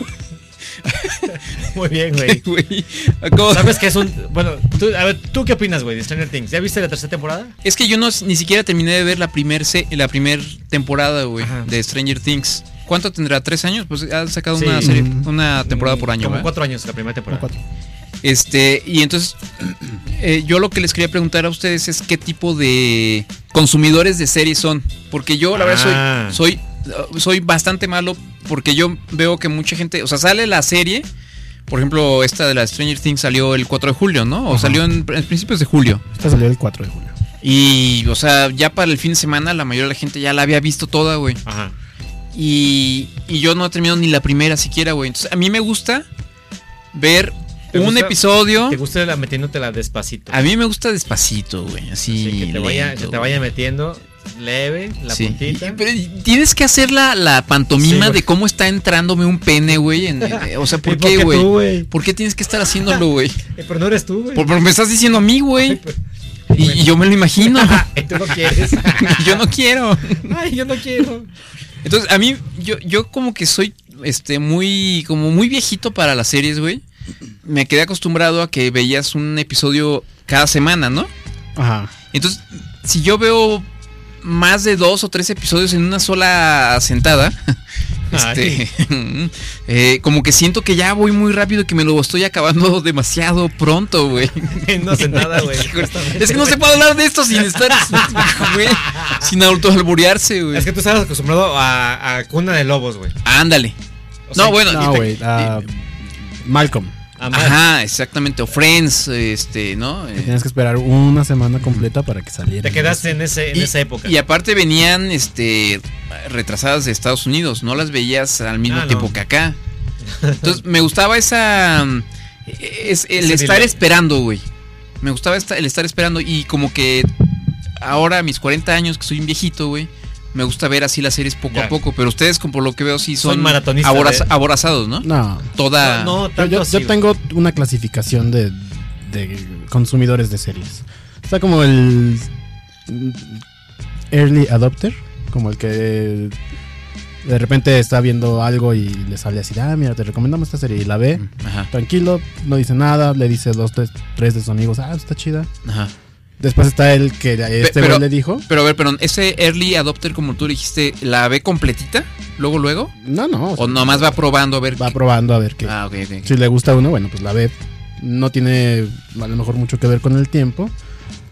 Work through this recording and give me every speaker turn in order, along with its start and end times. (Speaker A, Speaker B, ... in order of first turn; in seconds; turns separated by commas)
Speaker A: 0.8-1.4, Speaker B: 1.3-2.4, Speaker A: 2.2-3.9, Speaker B: 3.5-7.5, Speaker A: 7.6-16.5, Speaker B: 11.4-11.7, Speaker B: 14.5-15.0, Speaker C: 14.8-15.3, Speaker B: 15.6-17.5, Speaker C: 17.3-17.6, Speaker A: 18.2-31.1, Speaker B: 25.5-26.4, Speaker A: 31.7-36.1, Speaker C: 34.5-34.8, Speaker C: 36.1-37.1, Speaker A: 37.4-41.4, Speaker B: 41.4-41.7, Speaker A: 42.3-46.1, Speaker A: 46.9-48.8, Speaker B: 47.7-50.4, Speaker A: 50.3-53.4, Speaker B: 52.1-55.8, Speaker A: 55.1-63.4, Speaker B: 57.8-58.2, Speaker B: 60.2-61.9, Speaker B: 63.5-64.5, Speaker A: 64.3-65.8, Speaker B: 65.6-66.0, Speaker B: 66.5-69.4, Speaker A: 66.5-70.3, Speaker B: 70.2-71.3, Speaker A: 71.8-76.8, Speaker A: 77.4-81.1, Speaker C: 81.5-81.9, Speaker A: 82.1-83.7, Speaker A: 84.2-87.6, Speaker A: 88.1-100.7, Speaker B: 88.1-88.6, Speaker B: 94.5-96.7, Speaker B: 97.4-99.3, Speaker B: 100.5-103.2, Speaker A: 103.2-103.8, Speaker B: 104.3-105.1, Speaker A: 104.3-105.6, Speaker C: 104.7-106.9, Speaker B: 107.2-107.6, Speaker A: 107.3-110.4, Speaker C: 110.2-113.1, Speaker B: 112.6-114.1, Speaker A: 113.5-119.6, Speaker B: 118.7-119.2, Speaker B: 120.0-120.6, Speaker A: 120.4-124.5, Speaker B: 123.2-123.8, Speaker A: 125.0-127.1, Speaker A: 127.8-136.2, Speaker B: 131.5-131.8, Speaker B: 133.2-134.3, Speaker C: 135.0-135.5, Speaker B: 135.8-137.0, Speaker C: 136.3-142.3, Speaker C: 142.9-143.4, Speaker C: 144.1-146.3, Speaker C: 147.2-155.5, Speaker A: 151.2-151.7, Speaker A: 155.6-155.9, Speaker C: 156.4-158.4, Speaker A: 157.6-162.9, Speaker C: 163.0-164.2, Speaker A: 163.6-165.0, Speaker C: 164.7-170.7, Speaker A: 165.6-166.3